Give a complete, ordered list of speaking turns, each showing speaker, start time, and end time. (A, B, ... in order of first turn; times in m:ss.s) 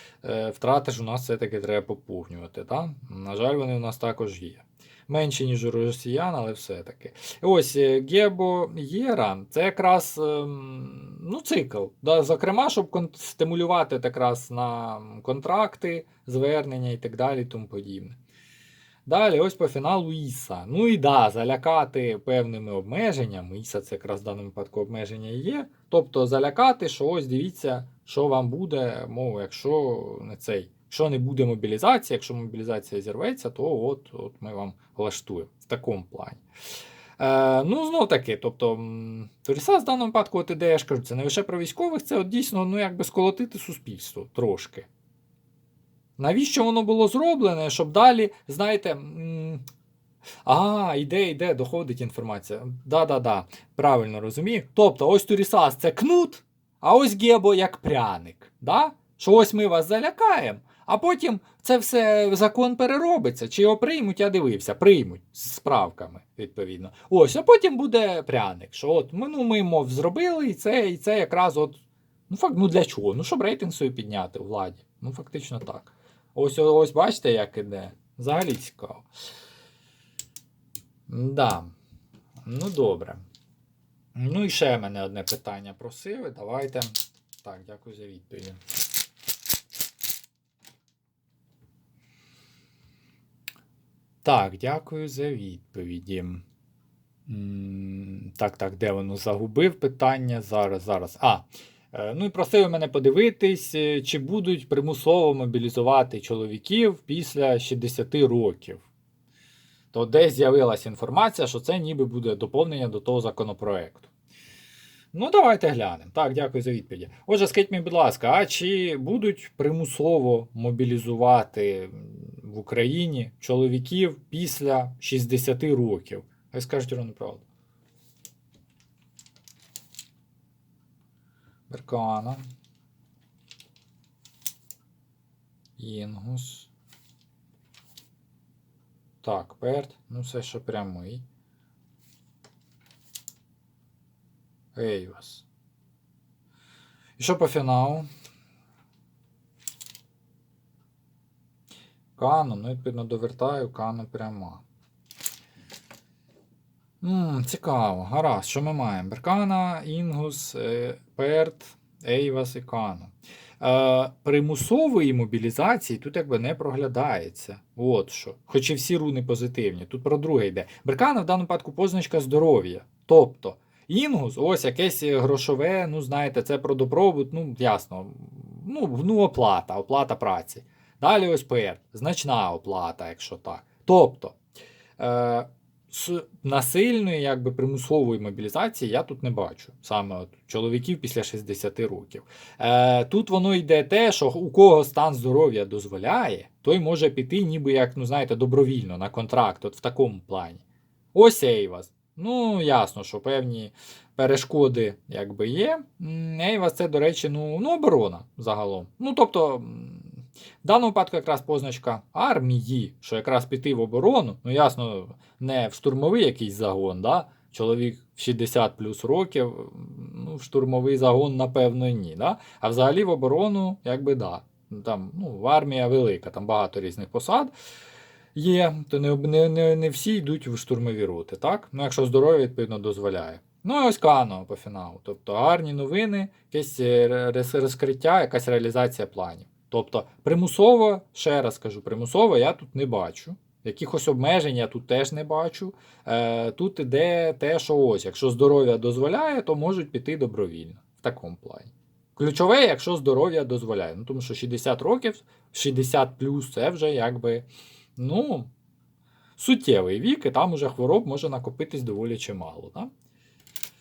0:00.2-0:18.2 A
0:19.1-0:36.4 A
0:37.2-0:44.9 A
0:46.2-0:49.6 A
0:50.4-1:19.1 A
1:21.1-1:21.7 A
1:22.4-1:23.3 A
1:24.2-1:28.6 A
1:34.2-1:36.4 A
1:37.3-1:48.8 A
1:49.9-1:54.1 A
1:55.1-2:07.4 A
2:11.7-2:12.4 A
2:15.8-2:16.7 A
2:19.2-2:21.2 A
2:24.8-2:25.5 A
2:27.2-2:28.1 A
2:32.2-2:34.6 A
2:37.0-3:04.4 A
3:05.0-3:20.6 A
3:21.1-3:47.5 A
3:48.4-4:18.5 A
4:19.4-4:22.9 A